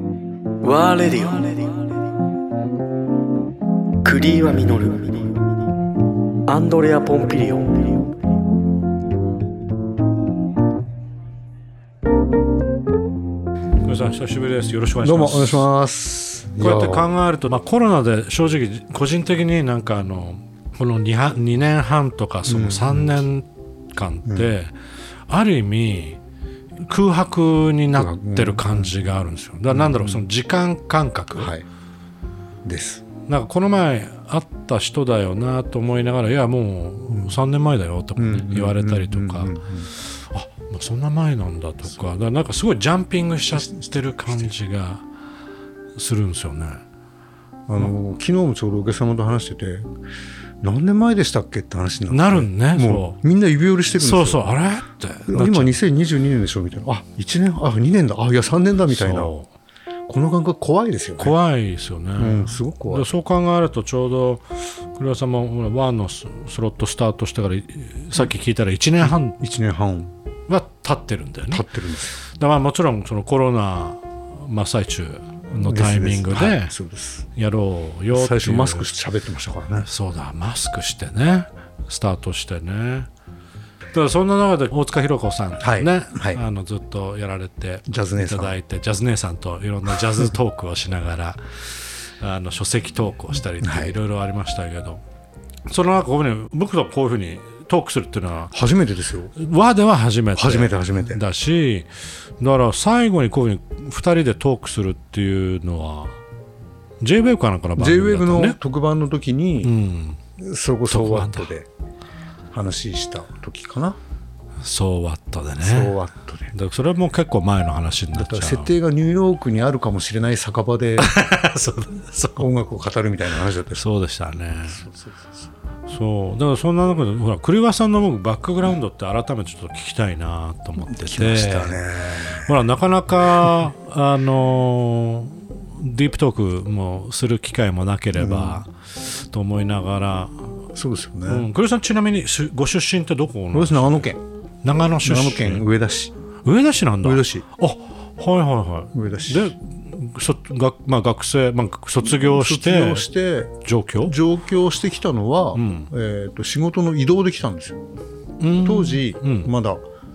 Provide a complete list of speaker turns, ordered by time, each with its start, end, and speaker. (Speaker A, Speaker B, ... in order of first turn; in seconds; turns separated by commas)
Speaker A: 0.6-1.8, Speaker A: 4.0-5.3, Speaker A: 6.5-8.1, Speaker B: 13.8-15.7, Speaker C: 15.0-17.1, Speaker B: 16.6-24.8, Speaker C: 22.4-23.1, Speaker C: 24.2-24.5, Speaker B: 25.3-26.2, Speaker B: 26.8-31.5, Speaker C: 27.9-28.9, Speaker C: 29.7-30.2, Speaker C: 31.3-31.6, Speaker C: 32.6-33.0, Speaker B: 33.2-45.0, Speaker C: 38.1-39.9, Speaker C: 43.5-44.5, Speaker B: 46.0-46.8, Speaker C: 47.7-49.9, Speaker C: 50.6-54.5, Speaker B: 52.1-53.2, Speaker B: 53.9-55.8, Speaker C: 55.3-59.3, Speaker B: 58.9-59.5, Speaker C: 60.1-61.4, Speaker B: 61.2-69.4, Speaker C: 62.2-63.1, Speaker C: 69.0-70.1, Speaker B: 70.5-71.7, Speaker C: 71.5-72.2, Speaker B: 72.2-76.8, Speaker C: 75.5-77.3, Speaker B: 77.3-78.9, Speaker C: 78.1-79.9, Speaker B: 79.8-83.1, Speaker B: 83.9-95.0, Speaker C: 85.6-86.4, Speaker C: 87.9-88.6, Speaker C: 93.5-94.0, Speaker B: 95.7-98.6, Speaker C: 98.5-99.3, Speaker B: 99.3-101.9, Speaker C: 100.3-101.2, Speaker B: 102.4-106.2, Speaker B: 107.0-108.6, Speaker C: 107.8-109.8, Speaker B: 109.6-110.2, Speaker C: 110.4-111.7, Speaker B: 110.9-111.5, Speaker C: 112.5-114.0, Speaker B: 114.6-116.0, Speaker C: 115.6-116.6, Speaker B: 116.5-118.8, Speaker C: 118.1-121.1, Speaker B: 121.0-122.5, Speaker C: 122.4-123.9, Speaker B: 123.7-124.8, Speaker C: 124.7-125.5, Speaker B: 125.9-140.7, Speaker C: 130.8-132.6, Speaker C: 138.2-138.6, Speaker C: 140.7-141.5, Speaker B: 141.3-145.7, Speaker C: 143.5-144.2, Speaker C: 145.0-146.2, Speaker B: 146.4-153.1, Speaker C: 147.0-147.5, Speaker C: 148.9-149.6, Speaker C: 152.0-157.8, Speaker B: 153.6-154.2, Speaker B: 155.5-155.9, Speaker B: 158.4-159.5, Speaker C: 158.6-159.8